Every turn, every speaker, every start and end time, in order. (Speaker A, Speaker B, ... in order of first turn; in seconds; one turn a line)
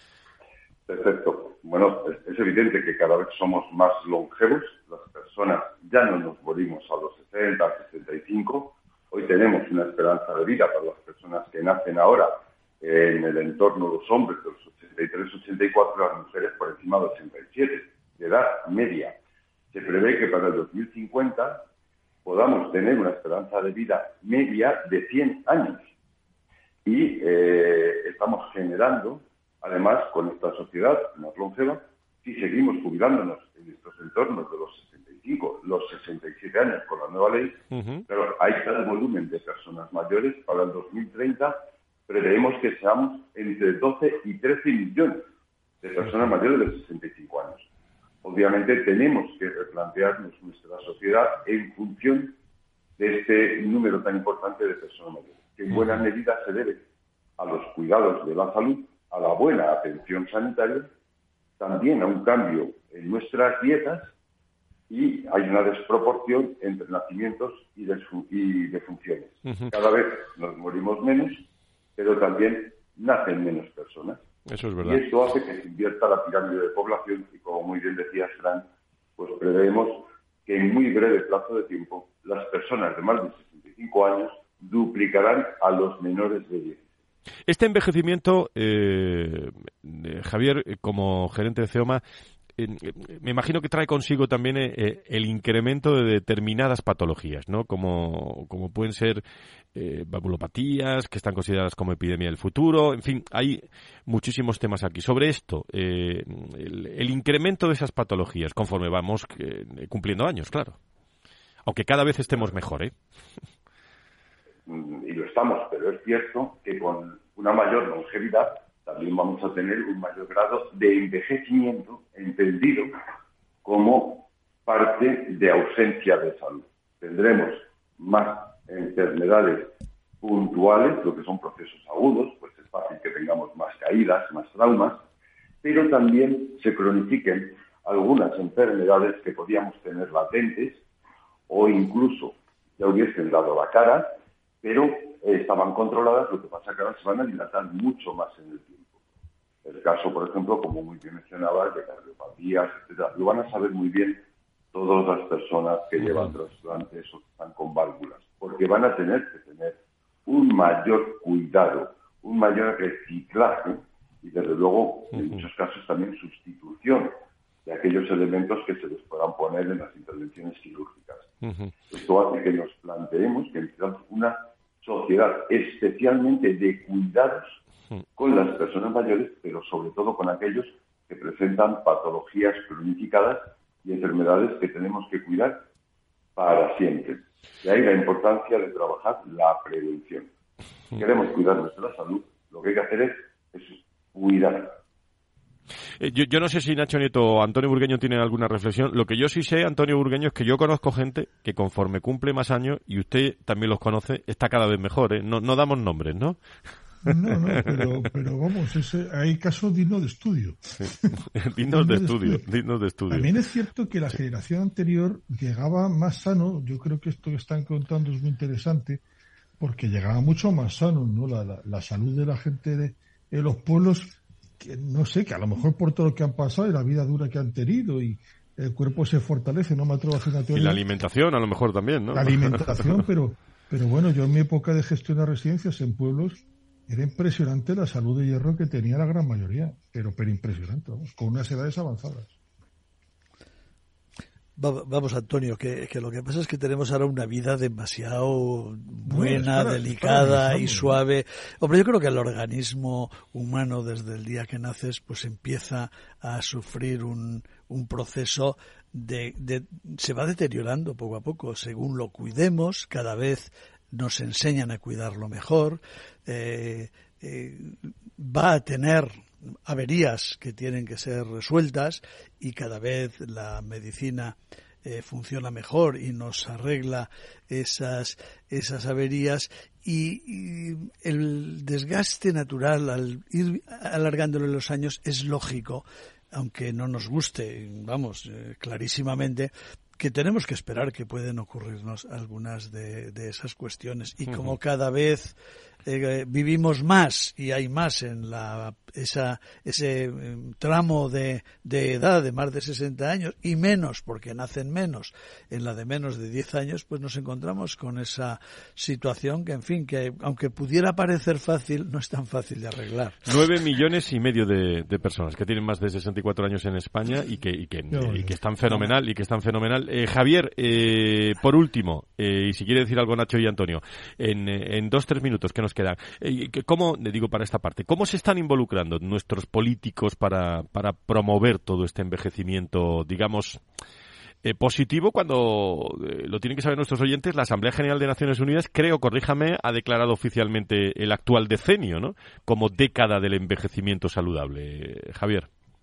Speaker A: 0.9-19.2
Speaker A: 19.7-21.7
Speaker A: 22.2-25.9
Speaker A: 26.9-45.3
Speaker B: 37.7-38.0
Speaker A: 45.8-47.7
Speaker A: 48.2-52.4
Speaker A: 53.0-56.8
Speaker A: 57.4-60.9
Speaker A: 61.6-64.1
Speaker A: 64.9-71.5
Speaker B: 69.5-69.7
Speaker A: 72.0-74.2
Speaker B: 74.5-75.0
Speaker A: 74.8-86.8
Speaker B: 87.5-92.0
Speaker B: 92.6-99.2
Speaker B: 99.8-110.8
Speaker B: 111.7-113.0
Speaker A: 114.7-122.9
Speaker A: 123.6-135.0
Speaker A: 135.6-140.8
Speaker A: 141.5-148.9
Speaker A: 149.7-171.3
Speaker B: 171.4-171.7
Speaker A: 171.9-177.6
Speaker A: 178.2-185.6
Speaker A: 186.4-190.3
Speaker A: 190.9-194.8
Speaker B: 196.0-206.4
Speaker C: 207.0-212.4
Speaker B: 207.1-207.8
Speaker B: 210.8-213.3
Speaker C: 213.1-219.0
Speaker C: 219.6-230.9
Speaker B: 230.5-233.0
Speaker C: 232.1-242.3
Speaker D: 244.6-313.3
Speaker C: 249.1-251.0
Speaker B: 313.3-333.6
Speaker C: 317.9-318.9
Speaker B: 334.4-345.5